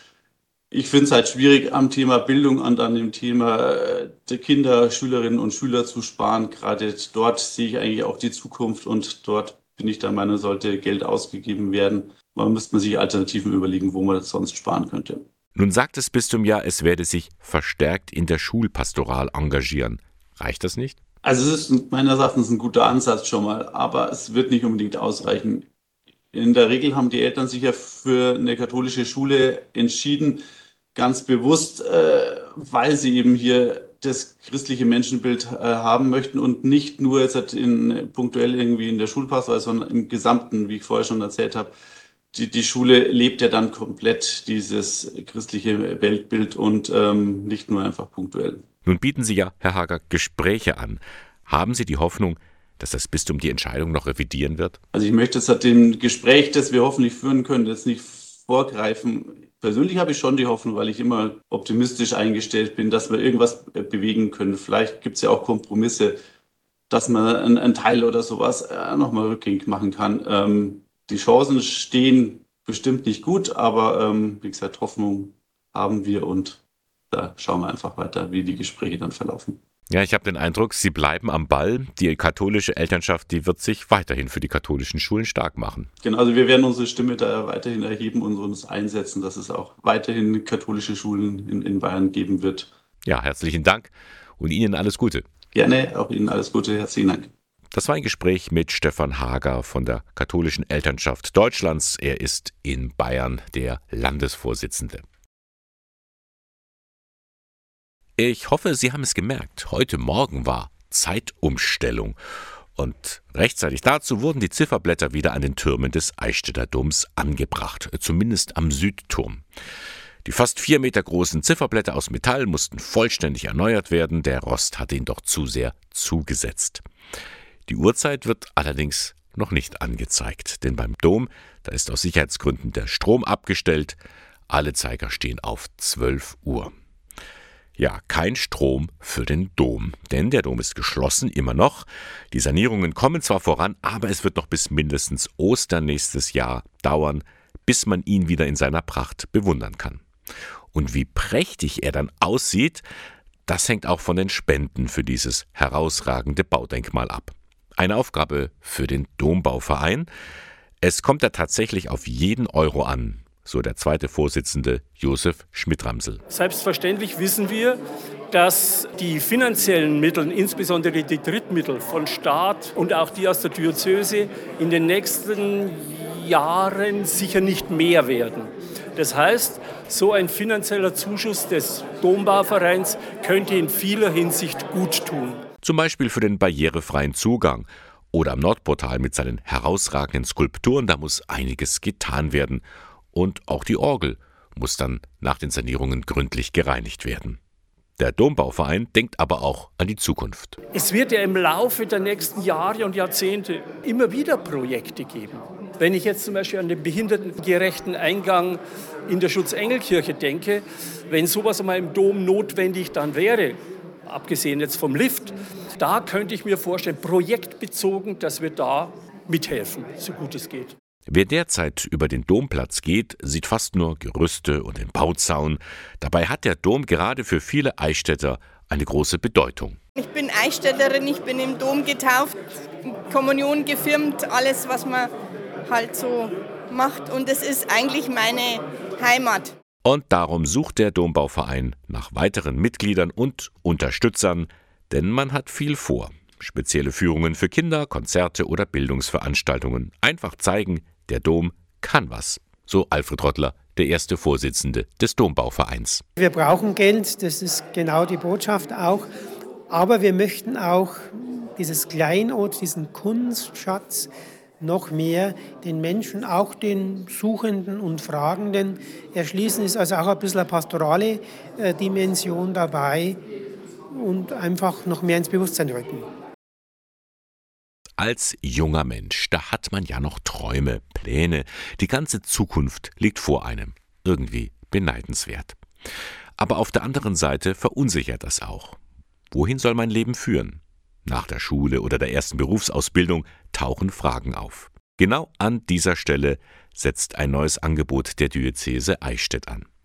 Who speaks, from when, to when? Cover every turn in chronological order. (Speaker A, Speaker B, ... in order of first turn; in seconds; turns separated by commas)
Speaker A: 0.7-15.2, Speaker B: 15.6-21.0, Speaker A: 21.2-25.7, Speaker A: 26.3-30.4, Speaker A: 30.9-41.7, Speaker A: 42.3-48.6, Speaker B: 48.8-54.8, Speaker A: 54.9-66.2, Speaker A: 66.9-76.6, Speaker A: 77.1-79.6, Speaker B: 79.9-85.9, Speaker A: 86.0-92.7, Speaker B: 93.0-95.3, Speaker A: 95.5-97.3, Speaker B: 97.7-105.0, Speaker B: 108.2-112.2, Speaker B: 112.8-119.4, Speaker B: 120.2-126.8, Speaker B: 127.7-134.0, Speaker B: 134.5-136.7, Speaker B: 137.8-150.0, Speaker B: 150.7-152.8, Speaker B: 153.5-160.1, Speaker B: 160.8-166.2, Speaker C: 166.3-185.4, Speaker B: 185.6-197.4, Speaker B: 198.0-200.6, Speaker C: 200.7-213.6, Speaker C: 214.1-220.7, Speaker B: 221.1-229.8, Speaker D: 229.9-235.1, Speaker D: 235.7-239.5, Speaker B: 239.8-256.0, Speaker E: 256.2-259.1, Speaker E: 259.7-264.1, Speaker E: 264.6-273.2, Speaker E: 273.9-276.1, Speaker B: 278.0-285.6, Speaker B: 286.4-288.8, Speaker B: 289.3-299.7